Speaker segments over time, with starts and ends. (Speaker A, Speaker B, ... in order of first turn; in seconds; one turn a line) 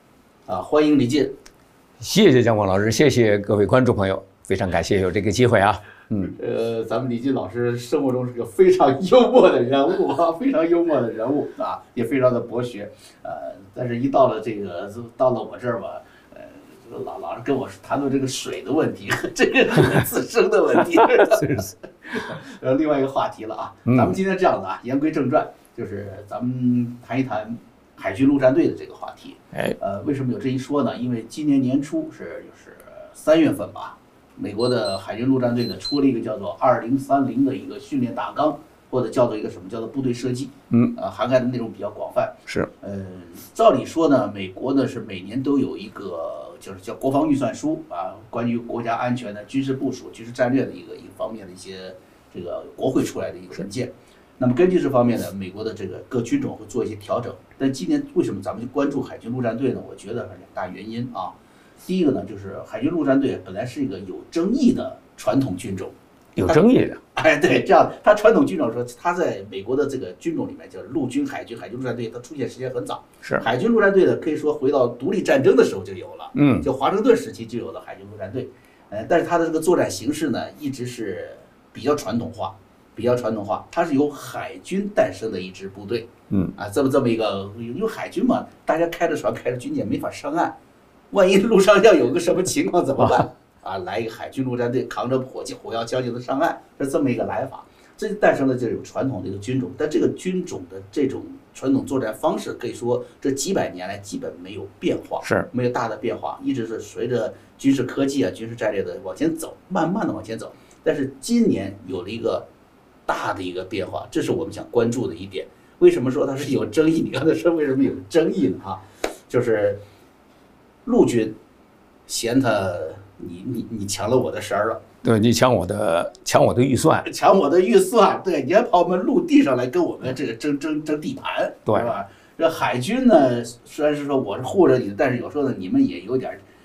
Speaker A: 0.5-1.4
Speaker B: 2.0-6.3
Speaker A: 6.3-66.0
Speaker B: 21.0-21.7
Speaker B: 23.9-24.2
Speaker B: 40.7-41.0
Speaker B: 66.4-67.0
Speaker A: 67.2-90.6
Speaker B: 76.3-76.7
Speaker B: 86.3-86.5
Speaker A: 91.1-112.5
Speaker B: 105.2-105.5
Speaker A: 113.1-119.8
Speaker A: 120.9-121.4
Speaker A: 122.1-124.8
Speaker B: 125.0-127.1
Speaker A: 127.0-136.4